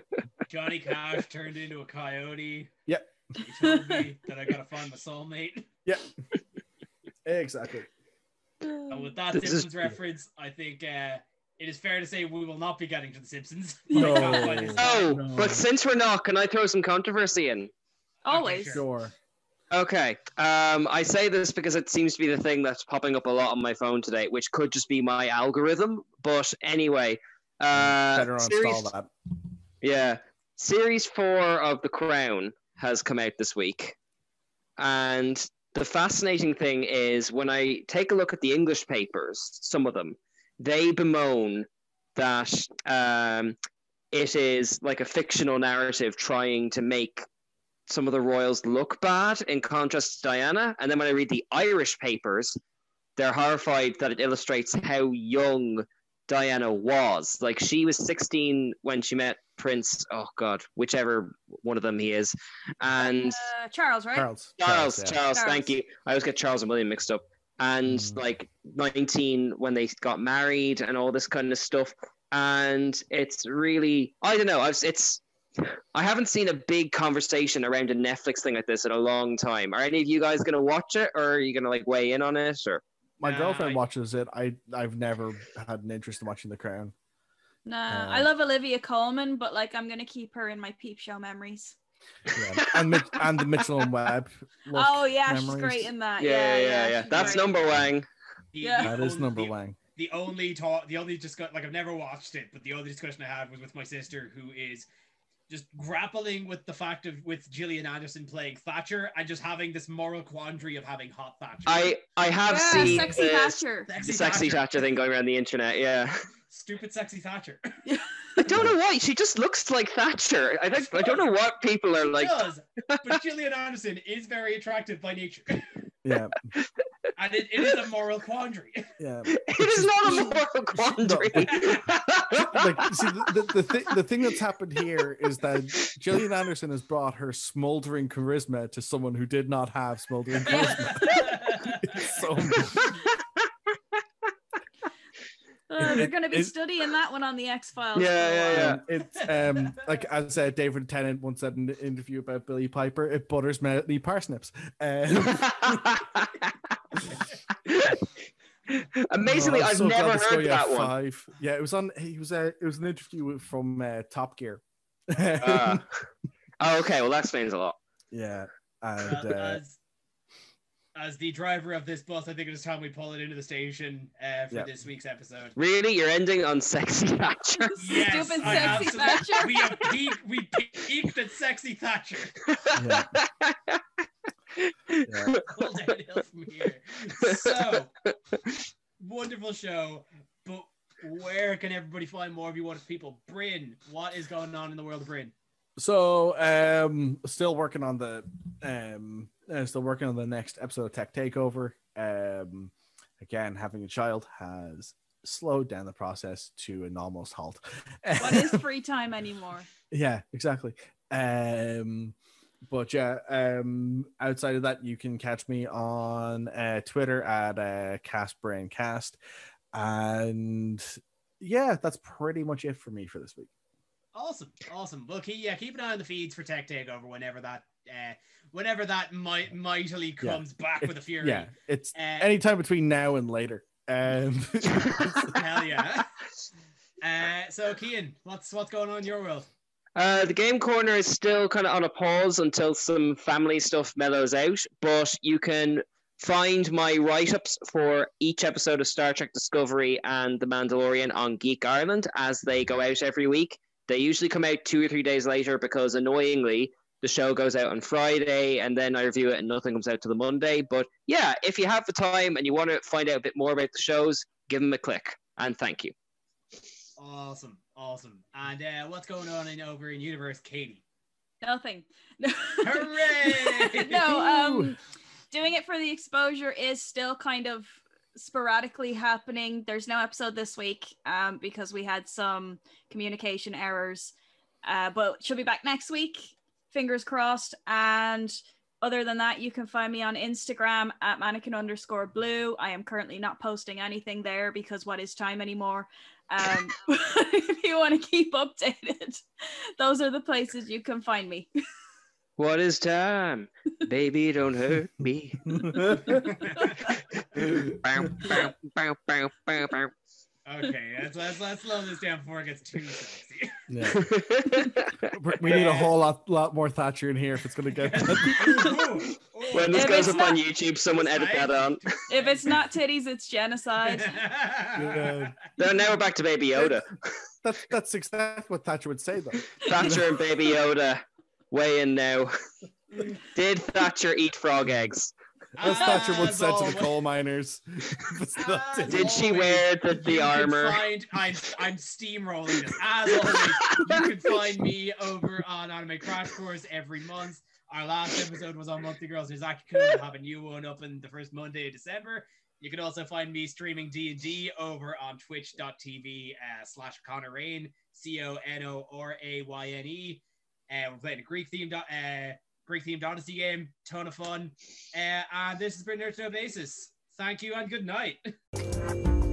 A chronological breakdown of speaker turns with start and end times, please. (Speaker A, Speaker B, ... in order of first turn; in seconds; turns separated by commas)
Speaker A: 0.5-2.7, Speaker A: 3.3-5.7, Speaker B: 7.2-7.9, Speaker C: 8.6-9.1, Speaker A: 8.9-15.2, Speaker D: 9.3-9.7, Speaker C: 13.9-14.8, Speaker B: 13.9-15.7, Speaker D: 14.8-17.7, Speaker C: 18.2-18.8, Speaker A: 18.3-18.9, Speaker B: 18.7-19.1, Speaker D: 19.7-28.9, Speaker B: 27.7-29.1, Speaker D: 29.8-34.0, Speaker D: 34.8-43.5, Speaker D: 44.1-47.2, Speaker D: 47.9-52.6, Speaker D: 53.2-63.4, Speaker C: 63.0-64.3, Speaker B: 64.1-65.2, Speaker D: 64.6-82.8, Speaker C: 65.3-65.7, Speaker B: 67.9-68.2, Speaker B: 83.2-86.9, Speaker A: 83.2-83.8, Speaker C: 87.7-91.7, Speaker B: 87.9-88.3, Speaker B: 92.3-95.9, Speaker D: 92.6-93.2, Speaker C: 94.7-97.5, Speaker D: 96.2-98.1, Speaker A: 97.1-97.4, Speaker A: 98.5-104.9, Speaker C: 98.6-98.9, Speaker B: 98.8-99.8, Speaker A: 105.5-112.0, Speaker D: 111.7-116.2, Speaker C: 112.5-113.9, Speaker A: 112.7-113.2, Speaker A: 113.8-115.0, Speaker A: 116.5-117.7, Speaker C: 117.8-118.4, Speaker D: 118.4-122.4, Speaker B: 118.5-118.8, Speaker A: 120.7-121.3, Speaker A: 122.1-125.7, Speaker B: 126.0-126.4, Speaker A: 127.2-128.9, Speaker B: 129.0-130.4, Speaker D: 129.3-133.1, Speaker B: 131.0-131.9, Speaker A: 131.3-131.8, Speaker B: 132.5-142.9, Speaker C: 140.4-141.3, Speaker A: 140.5-142.2, Speaker C: 145.7-148.8, Speaker B: 145.8-146.5, Speaker D: 147.9-148.8, Speaker B: 148.5-156.0, Speaker A: 149.2-149.7, Speaker D: 155.1-156.7, Speaker D: 157.7-158.0, Speaker D: 158.7-160.9, Speaker B: 159.2-165.8, Speaker D: 165.4-165.9, Speaker D: 166.6-167.8, Speaker B: 168.1-169.6, Speaker A: 169.0-169.8, Speaker A: 170.9-175.6, Speaker D: 175.6-177.9, Speaker C: 177.6-179.8, Speaker A: 177.8-182.4, Speaker D: 178.4-178.8, Speaker D: 182.5-183.8, Speaker B: 182.7-183.1, Speaker D: 184.6-185.6, Speaker B: 185.1-185.4, Speaker A: 185.5-187.9, Speaker D: 187.2-187.6, Speaker A: 189.0-195.3, Speaker B: 195.8-208.6, Speaker C: 208.2-209.7, Speaker B: 209.9-212.1, Speaker B: 212.7-219.2, Speaker B: 219.7-223.5, Speaker A: 224.1-232.3, Speaker B: 230.2-235.4, Speaker A: 235.0-236.1, Speaker A: 237.0-239.5, Speaker D: 239.9-265.9, Speaker A: 267.0-270.8, Speaker C: 271.4-274.8, Speaker A: 272.6-274.1, Speaker B: 274.0-274.8, Speaker C: 275.3-301.5, Speaker D: 302.4-305.9, Speaker B: 305.5-306.3, Speaker A: 306.1-306.9, Speaker D: 307.4-309.9, Speaker B: 307.4-308.1, Speaker A: 310.4-313.6, Speaker B: 313.7-314.1, Speaker D: 313.9-315.1, Speaker B: 315.1-318.8, Speaker A: 315.4-315.9, Speaker A: 317.8-322.5, Speaker D: 319.5-321.8, Speaker C: 319.7-320.4, Speaker C: 322.1-324.2, Speaker A: 323.9-325.3, Speaker B: 324.7-325.4, Speaker D: 325.6-327.0, Speaker B: 326.5-326.9, Speaker B: 327.4-330.2, Speaker D: 329.6-332.3, Speaker D: 333.0-335.1, Speaker A: 335.6-336.9, Speaker B: 335.6-339.3, Speaker A: 338.3-368.2, Speaker D: 338.9-340.8, Speaker D: 343.2-344.1